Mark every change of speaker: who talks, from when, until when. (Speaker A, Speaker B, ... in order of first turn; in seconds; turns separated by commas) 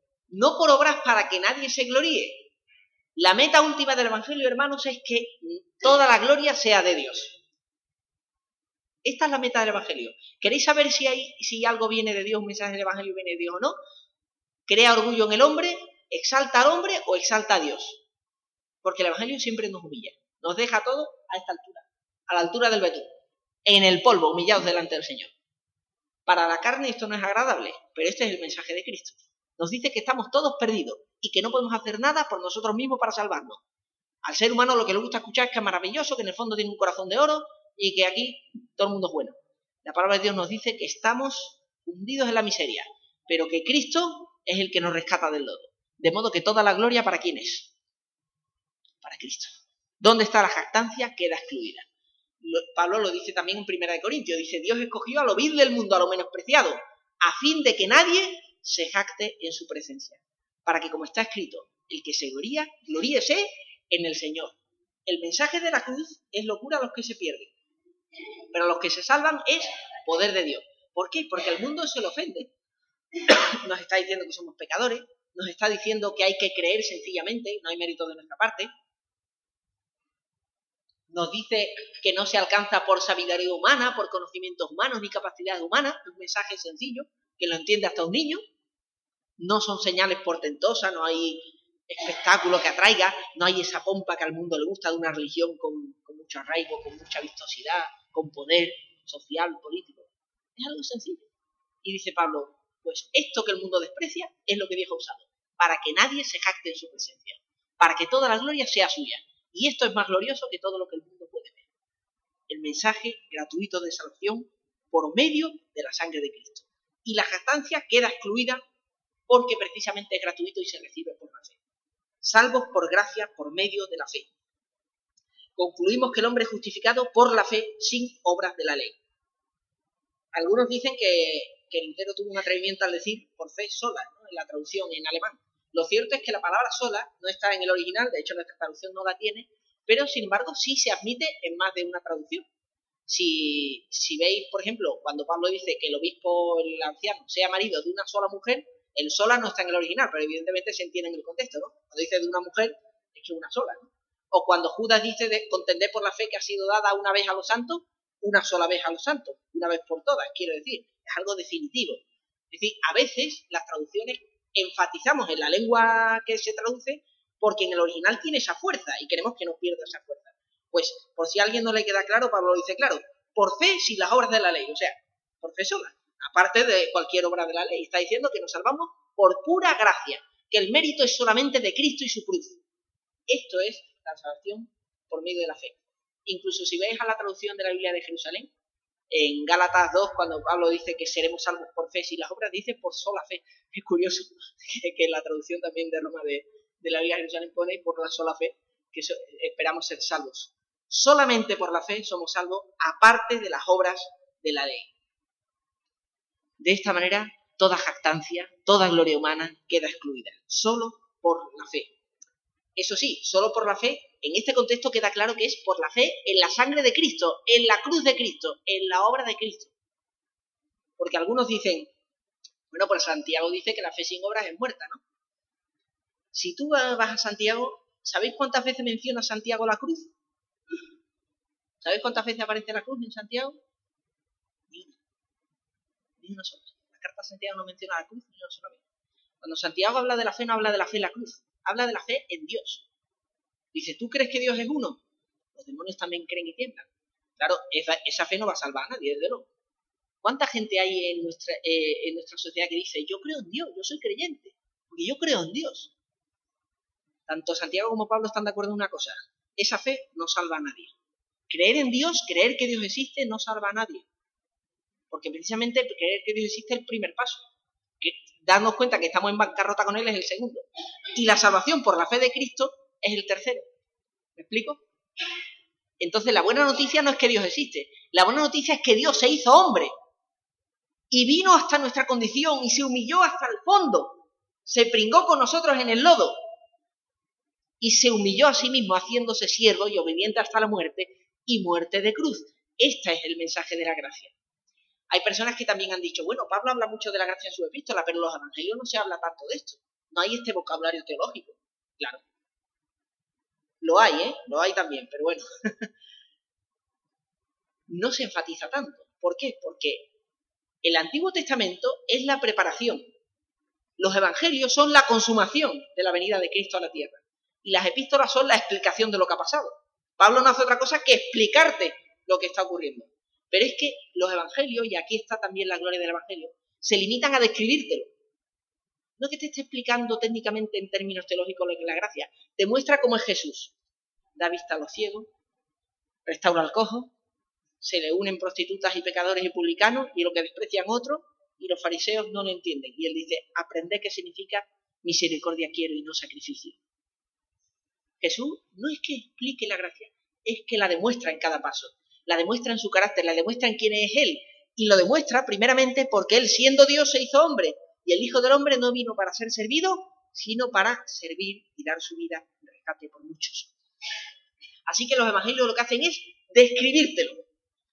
Speaker A: 0.3-2.5, Speaker A: 3.2-7.4, Speaker A: 9.0-13.8, Speaker A: 14.7-18.0, Speaker A: 18.8-23.1, Speaker A: 23.6-25.3, Speaker A: 26.3-33.6, Speaker A: 34.2-47.7, Speaker A: 49.0-51.9, Speaker A: 52.4-67.5, Speaker A: 68.5-72.5, Speaker A: 73.2-78.7, Speaker A: 81.1-88.4, Speaker A: 89.4-101.3, Speaker A: 101.8-111.7, Speaker A: 112.5-118.6, Speaker A: 119.3-121.6, Speaker A: 122.2-124.3, Speaker A: 125.6-129.0, Speaker A: 130.3-142.5, Speaker A: 143.1-182.6, Speaker A: 183.3-188.5, Speaker A: 189.1-204.9, Speaker A: 206.6-211.9, Speaker A: 212.8-219.7, Speaker A: 221.0-221.9, Speaker A: 222.7-225.0, Speaker A: 226.3-230.1, Speaker A: 231.8-233.6, Speaker A: 234.7-235.0, Speaker A: 236.2-238.8, Speaker A: 239.4-242.9, Speaker A: 243.7-245.0, Speaker A: 245.6-249.5, Speaker A: 250.2-255.9, Speaker A: 257.3-260.9, Speaker A: 261.5-264.1, Speaker A: 265.1-267.4, Speaker A: 268.0-273.7, Speaker A: 274.4-274.8, Speaker A: 276.0-279.9, Speaker A: 281.1-286.4, Speaker A: 287.8-294.3, Speaker A: 295.1-302.2, Speaker A: 303.8-305.9, Speaker A: 307.9-310.1, Speaker A: 310.8-313.1, Speaker A: 314.0-328.1, Speaker A: 329.2-333.8, Speaker A: 334.4-335.3, Speaker A: 336.3-337.1, Speaker A: 337.8-346.8, Speaker A: 348.2-363.8, Speaker A: 364.9-367.4